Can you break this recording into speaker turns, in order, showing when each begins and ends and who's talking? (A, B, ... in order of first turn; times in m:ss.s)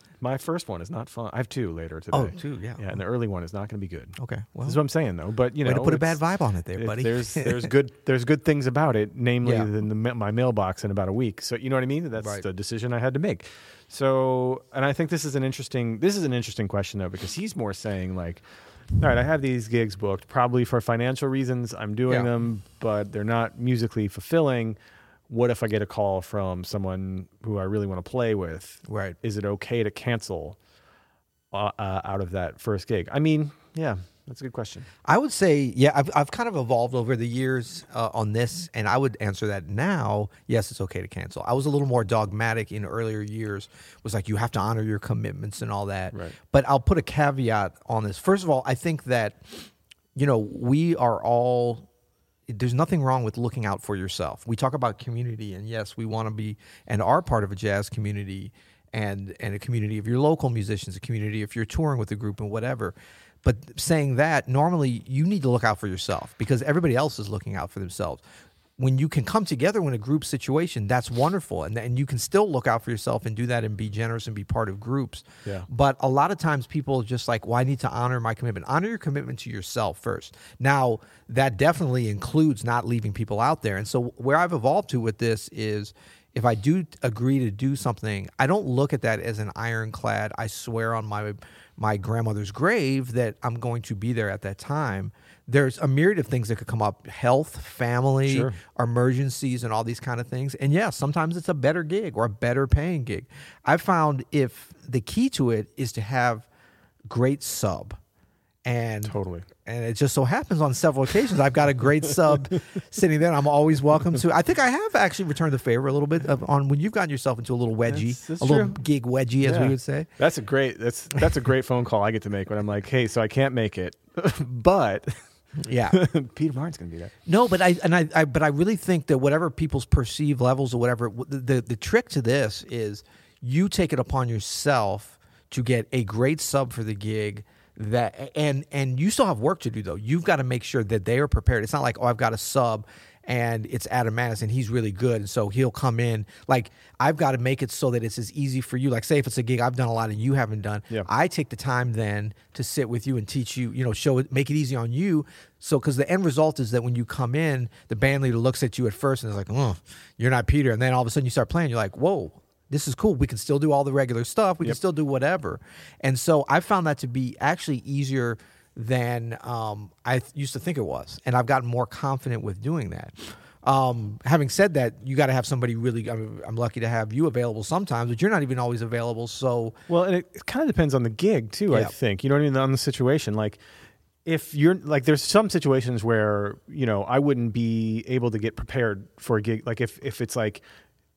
0:00.2-0:06.2 A
0:02.1-0:02.9 B
0:04.2-0:04.8 B
0:05.6-0:07.7 B
0:06.8-0:18.4 A
0:09.4-0:09.7 B
0:12.2-0:12.5 B
0:19.0-0:24.8 A
0:25.3-0:30.6 A
0:28.9-0:29.2 B
0:31.5-0:34.9 A
0:35.0-0:51.9 B
0:52.5-1:08.2 B
1:08.8-1:46.4 B
1:38.2-1:38.6 A
1:47.1-1:48.0 B
1:48.6-2:00.1 B
1:49.0-1:49.5 A
1:57.9-1:58.8 A
1:59.4-2:05.2 A
2:05.6-2:06.0 B
2:05.7-2:07.1 A
2:07.2-2:59.8 B
2:59.9-3:03.6 A
3:01.7-3:01.9 B
3:04.2-3:10.6 A